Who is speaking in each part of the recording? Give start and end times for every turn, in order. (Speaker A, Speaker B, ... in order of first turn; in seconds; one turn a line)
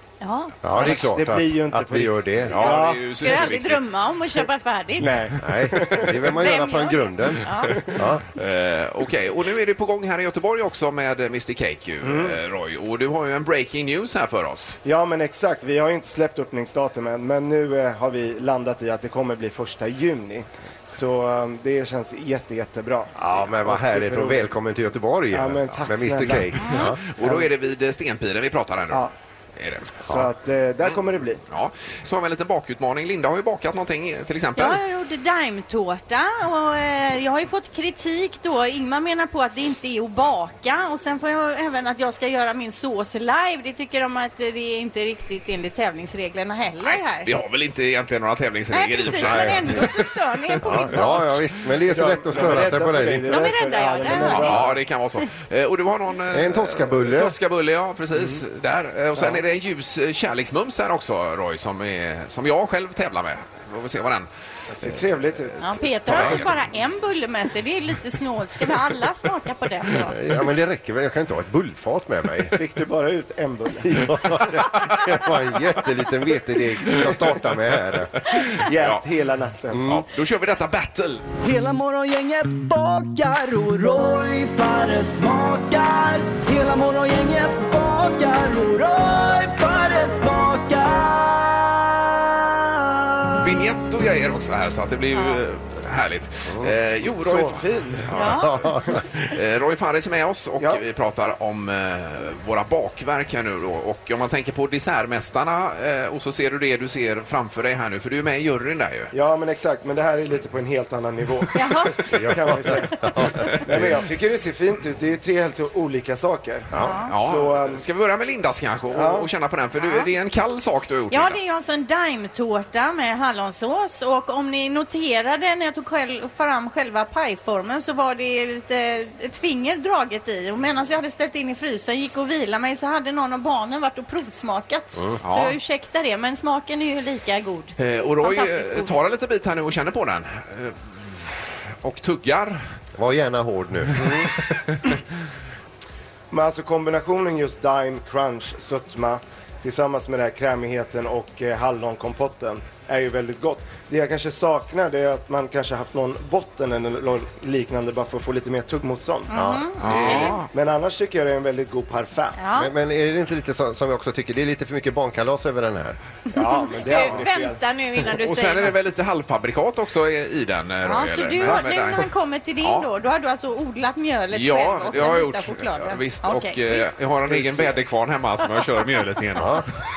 Speaker A: 0.2-0.7
Speaker B: 0.6-2.8
Speaker C: 0.7-3.1
Speaker D: 2.5-3.9
Speaker A: 3.2-5.2
Speaker C: 5.0-6.2
Speaker B: 5.4-8.2
Speaker A: 6.4-7.7
Speaker D: 8.3-14.8
Speaker C: 12.0-12.4
Speaker C: 14.8-24.5
Speaker B: 23.2-27.0
Speaker C: 25.3-27.5
Speaker D: 26.7-30.0
Speaker C: 30.0-31.4
Speaker D: 31.5-34.8
Speaker A: 34.6-47.3
Speaker D: 46.8-51.0
Speaker A: 48.7-51.2
Speaker B: 49.2-49.9
Speaker B: 50.6-53.5
Speaker C: 51.9-54.8
Speaker A: 53.3-54.7
Speaker D: 54.1-64.3
Speaker B: 56.3-57.4
Speaker C: 59.2-59.4
Speaker C: 64.8-66.5
Speaker D: 64.8-66.5
Speaker A: 65.6-70.2
Speaker B: 70.1-72.5
Speaker C: 72.5-74.4
Speaker B: 73.8-78.1
Speaker D: 78.2-79.0
Speaker C: 78.6-79.9
Speaker B: 79.7-80.0
Speaker D: 79.9-81.2
Speaker E: 81.4-93.2
Speaker D: 93.4-98.7
Speaker A: 95.1-95.4
Speaker B: 96.5-96.7
Speaker C: 97.2-98.2
Speaker B: 98.1-99.0
Speaker A: 98.2-98.5
Speaker D: 99.3-109.1
Speaker C: 109.1-117.8
Speaker A: 111.6-111.9
Speaker B: 112.1-114.0
Speaker B: 116.7-117.0
Speaker A: 116.8-117.1
Speaker D: 117.1-121.4
Speaker C: 118.9-119.3
Speaker A: 119.8-120.1
Speaker A: 121.1-139.0
Speaker D: 135.2-135.6
Speaker D: 137.8-142.7
Speaker B: 143.0-144.4
Speaker C: 146.3-162.4
Speaker A: 159.3-160.4
Speaker B: 159.3-160.3
Speaker D: 159.8-160.5
Speaker A: 162.4-162.7
Speaker B: 162.6-166.0
Speaker C: 166.3-167.6
Speaker A: 166.8-168.8
Speaker D: 168.2-172.1
Speaker A: 170.8-176.9
Speaker D: 172.6-172.9
Speaker D: 174.3-179.7
Speaker B: 179.4-179.7